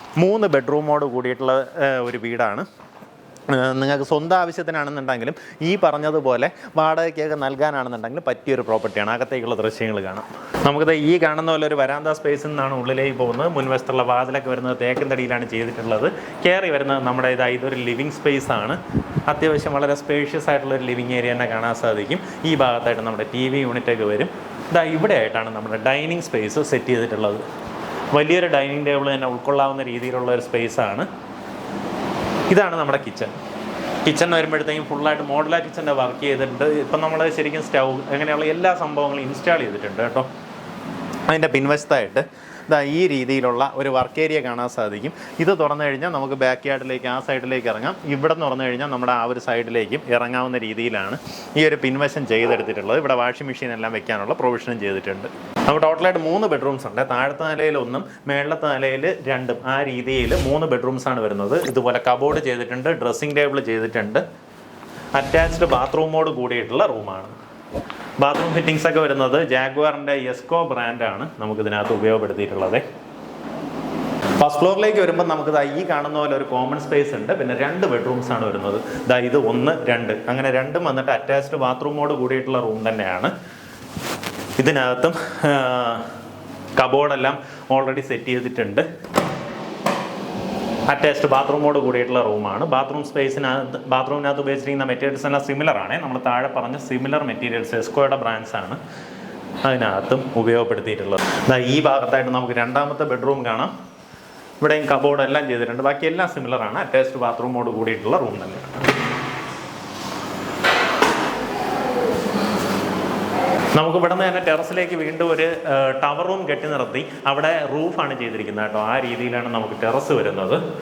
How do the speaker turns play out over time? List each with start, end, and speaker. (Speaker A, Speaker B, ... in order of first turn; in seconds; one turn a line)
Speaker A: 0.2-2.7
Speaker A: 3.5-27.4
Speaker A: 28.1-31.1
Speaker A: 32.5-33.3
Speaker A: 34.0-40.3
Speaker A: 41.3-64.2
Speaker A: 65.1-67.3
Speaker A: 68.2-72.8
Speaker A: 74.4-83.3
Speaker A: 84.6-86.1
Speaker A: 86.8-88.8
Speaker A: 90.9-98.8
Speaker A: 99.6-103.7
Speaker A: 104.6-108.9
Speaker A: 113.7-120.6